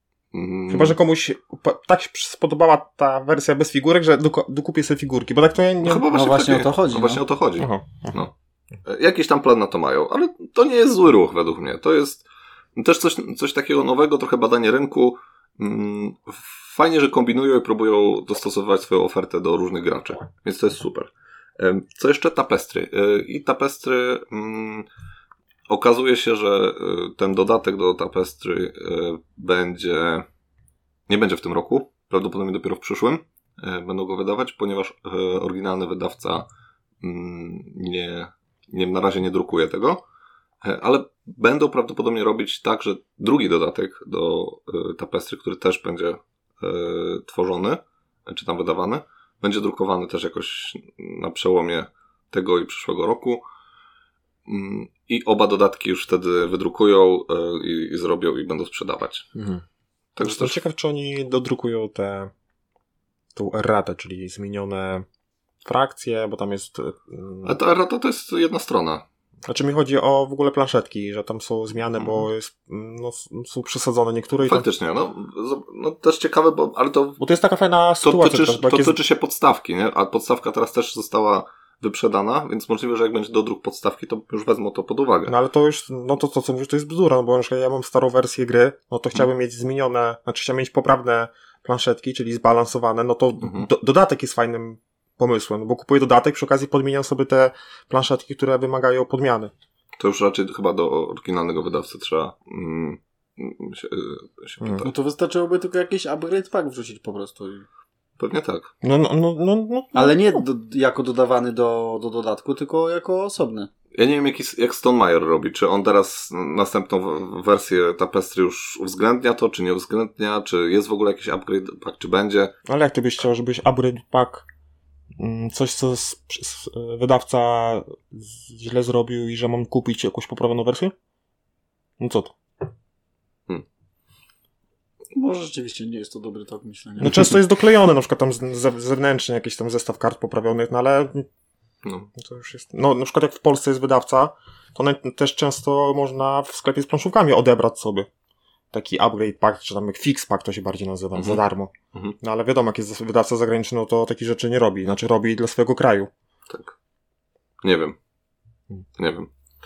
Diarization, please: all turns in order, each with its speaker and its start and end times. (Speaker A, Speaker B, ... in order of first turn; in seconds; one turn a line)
Speaker A: 0.3-1.0
Speaker B: 0.7-6.1
Speaker A: 5.8-8.3
Speaker C: 6.1-7.2
Speaker B: 7.6-8.2
Speaker A: 8.8-12.2
Speaker A: 12.8-24.9
Speaker A: 25.7-30.2
Speaker A: 31.1-36.5
Speaker A: 37.0-40.0
Speaker A: 40.6-53.4
Speaker A: 54.5-59.3
Speaker B: 59.3-59.6
Speaker A: 60.1-60.6
Speaker B: 60.2-62.3
Speaker B: 63.3-65.0
Speaker B: 65.6-67.5
Speaker A: 67.4-69.0
Speaker B: 69.5-74.7
Speaker A: 72.0-72.3
Speaker A: 74.5-77.2
Speaker B: 77.2-79.0
Speaker A: 78.0-85.3
Speaker B: 85.3-99.5
Speaker A: 93.4-93.7
Speaker A: 100.0-104.9
Speaker C: 104.8-107.7
Speaker A: 108.2-108.7
Speaker B: 108.8-110.4
Speaker C: 109.9-113.7
Speaker A: 113.9-122.5
Speaker B: 122.7-124.5
Speaker B: 125.2-130.9
Speaker B: 132.0-132.3
Speaker C: 135.1-137.3
Speaker B: 137.0-141.3
Speaker A: 141.8-142.1
Speaker B: 142.2-148.1
Speaker B: 148.7-156.1
Speaker A: 151.2-151.4
Speaker A: 156.5-156.7
Speaker A: 157.6-157.9
Speaker A: 159.0-159.3